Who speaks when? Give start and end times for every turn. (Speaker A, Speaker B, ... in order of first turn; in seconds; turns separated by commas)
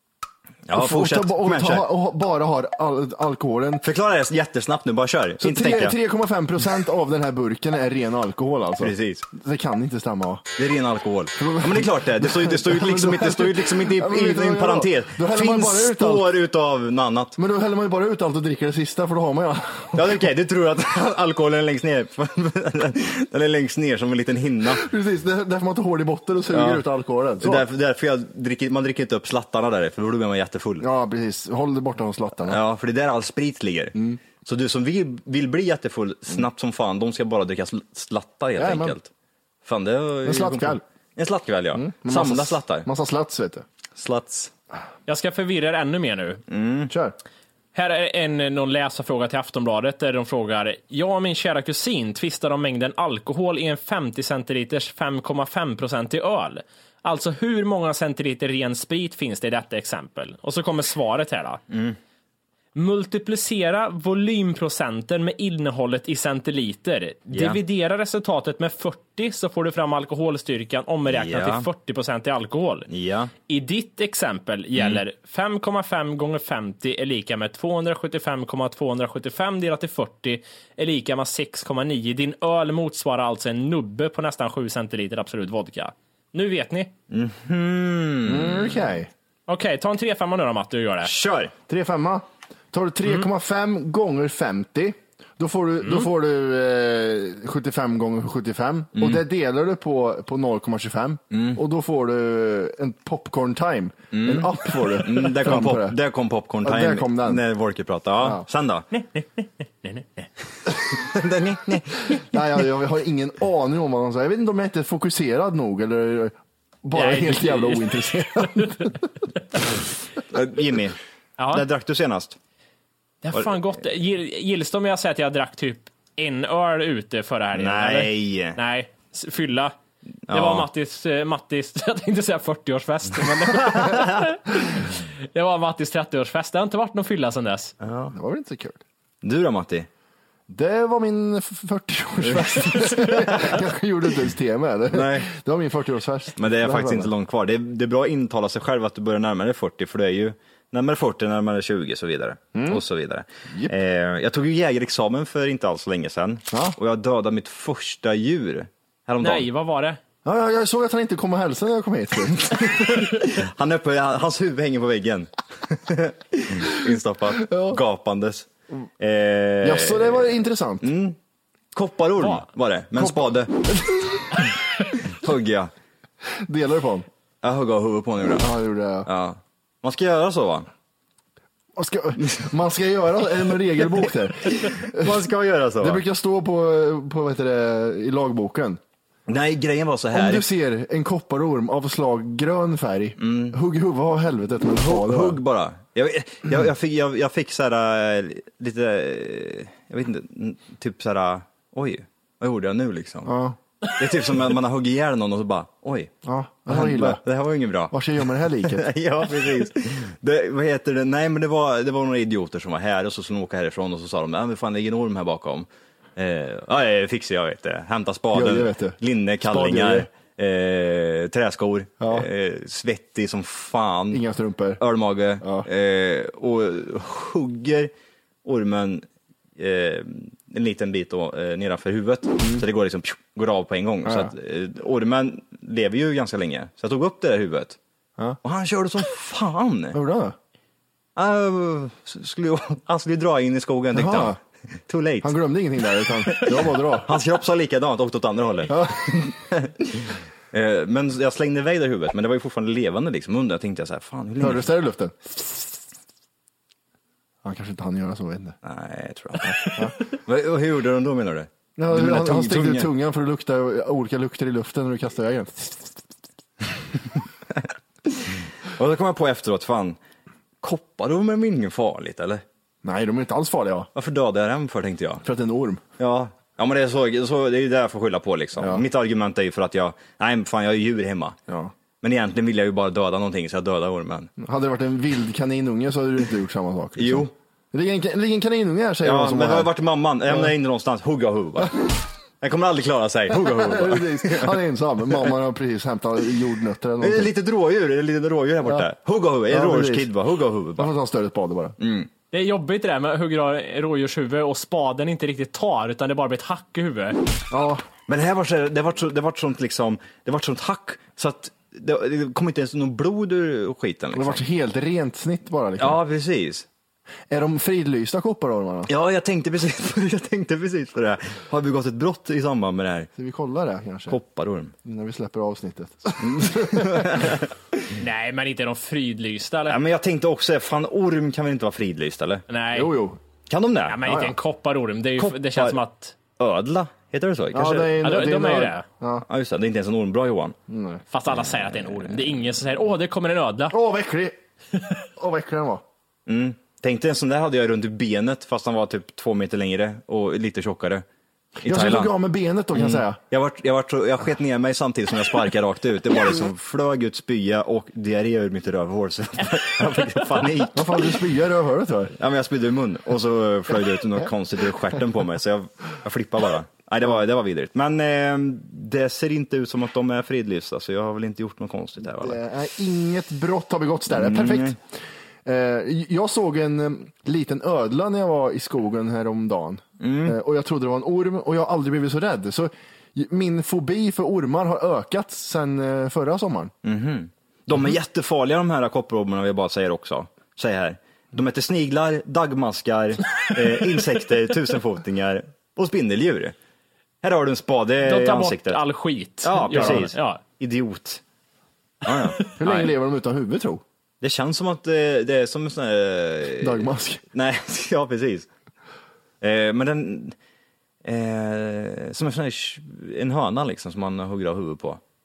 Speaker A: 0.7-1.9, Speaker B: 0.7-3.8, Speaker A: 3.8-6.0, Speaker B: 5.4-10.5, Speaker A: 8.8-9.3, Speaker A: 10.6-17.4, Speaker B: 11.4-16.3, Speaker B: 17.4-20.3, Speaker A: 19.9-24.9, Speaker B: 24.7-27.7, Speaker A: 26.5-26.9, Speaker A: 27.4-30.9, Speaker B: 30.8-32.6, Speaker A: 32.4-39.1, Speaker B: 33.9-34.2, Speaker B: 38.6-39.0, Speaker A: 39.6-42.9, Speaker B: 40.2-40.8, Speaker B: 41.7-43.6, Speaker A: 44.0-44.5, Speaker C: 45.1-46.4, Speaker A: 46.5-46.9, Speaker B: 46.9-47.1, Speaker C: 47.8-61.6, Speaker A: 61.7-62.0, Speaker C: 62.8-72.9, Speaker A: 67.3-67.6, Speaker A: 71.1-71.7, Speaker A: 72.9-73.3, Speaker C: 73.5-86.9, Speaker A: 74.8-75.0, Speaker A: 87.1-88.8, Speaker B: 88.2-89.1, Speaker C: 89.5-91.1, Speaker A: 91.0-91.5, Speaker B: 91.7-106.0, Speaker A: 98.9-99.2, Speaker A: 101.3-101.6, Speaker A: 104.1-108.9, Speaker B: 106.6-107.4, Speaker B: 108.2-108.4, Speaker C: 108.9-110.2, Speaker A: 110.7-112.4, Speaker B: 112.1-119.2, Speaker C: 116.9-118.7, Speaker A: 120.2-121.0, Speaker C: 121.4-121.7, Speaker A: 121.5-122.4, Speaker C: 123.2-129.8, Speaker A: 127.6-128.6, Speaker A: 130.3-130.7, Speaker C: 130.3-137.7, Speaker A: 133.5-134.2, Speaker A: 137.8-138.1, Speaker B: 138.1-138.8, Speaker A: 139.2-139.9, Speaker B: 140.5-147.1, Speaker A: 142.3-143.6, Speaker A: 144.9-145.3, Speaker A: 146.4-159.5, Speaker B: 152.6-152.8, Speaker C: 159.2-160.0, Speaker B: 160.2-162.8, Speaker A: 162.5-171.2, Speaker B: 167.3-167.8, Speaker B: 169.6-170.9, Speaker A: 171.7-175.7, Speaker B: 173.0-174.5, Speaker B: 176.2-177.1, Speaker A: 177.4-178.5, Speaker B: 178.4-179.1, Speaker A: 179.1-180.7, Speaker B: 181.8-185.2, Speaker A: 184.5-186.0, Speaker B: 185.8-188.8, Speaker A: 189.3-190.4, Speaker B: 190.1-195.4, Speaker A: 193.2-193.6, Speaker A: 194.8-203.3, Speaker B: 203.2-203.6, Speaker A: 203.9-206.1, Speaker B: 206.2-207.2, Speaker A: 206.7-215.7, Speaker B: 207.9-209.7, Speaker A: 216.2-224.2, Speaker B: 218.3-220.1, Speaker B: 222.0-222.3, Speaker B: 224.1-224.8, Speaker A: 224.8-227.9, Speaker B: 225.4-225.7, Speaker A: 228.4-229.0, Speaker A: 229.6-237.8, Speaker B: 234.0-234.3, Speaker A: 238.4-240.0, Speaker B: 239.9-240.4, Speaker A: 241.2-245.3, Speaker B: 243.9-244.4, Speaker B: 245.2-247.2, Speaker A: 246.0-254.7, Speaker B: 248.7-249.3, Speaker B: 254.4-255.3, Speaker B: 257.4-258.5, Speaker A: 258.6-262.9, Speaker B: 259.7-260.0, Speaker B: 261.8-265.8, Speaker A: 268.1-270.0, Speaker A: 270.6-272.4, Speaker B: 272.8-273.9, Speaker A: 273.9-275.2, Speaker B: 275.2-275.8, Speaker A: 276.0-281.4, Speaker B: 278.6-278.8, Speaker B: 281.5-281.7, Speaker A: 282.0-284.3, Speaker B: 284.4-289.7, Speaker A: 287.0-287.3, Speaker A: 289.0-294.6, Speaker B: 293.3-297.3, Speaker A: 297.0-300.9, Speaker B: 299.5-300.1, Speaker B: 300.8-301.8, Speaker A: 301.8-302.1, Speaker C: 302.3-307.2, Speaker B: 307.5-307.9, Speaker A: 308.1-314.4, Speaker B: 314.1-316.0, Speaker A: 315.8-316.6, Speaker B: 317.3-318.9, Speaker A: 318.9-323.1, Speaker B: 323.1-324.2, Speaker A: 324.1-324.7, Speaker B: 324.9-327.4, Speaker A: 326.2-327.5, Speaker C: 327.9-329.8, Speaker A: 329.7-332.5, Speaker C: 332.5-332.9, Speaker B: 332.7-333.2, Speaker A: 333.5-334.0, Speaker C: 333.9-336.1, Speaker B: 334.0-334.4, Speaker A: 335.2-335.8, Speaker A: 336.4-338.0, Speaker B: 337.5-339.2, Speaker C: 338.0-338.9, Speaker A: 339.3-340.6, Speaker B: 340.7-341.0, Speaker C: 341.1-343.8, Speaker A: 341.5-342.1, Speaker B: 343.7-344.4, Speaker B: 345.2-345.8, Speaker A: 346.3-351.0, Speaker B: 351.6-353.2, Speaker A: 351.6-352.1, Speaker A: 352.7-361.2, Speaker B: 360.7-362.1, Speaker A: 362.2-372.4, Speaker B: 372.2-374.8, Speaker A: 374.1-374.8, Speaker B: 375.4-386.7, Speaker A: 380.0-380.4, Speaker A: 386.8-396.5, Speaker A: 397.2-398.8, Speaker C: 398.0-400.4, Speaker A: 399.4-401.2, Speaker A: 402.0-402.9, Speaker B: 402.6-403.8, Speaker A: 404.2-408.5, Speaker B: 406.6-407.2, Speaker A: 409.4-410.4, Speaker A: 411.0-415.0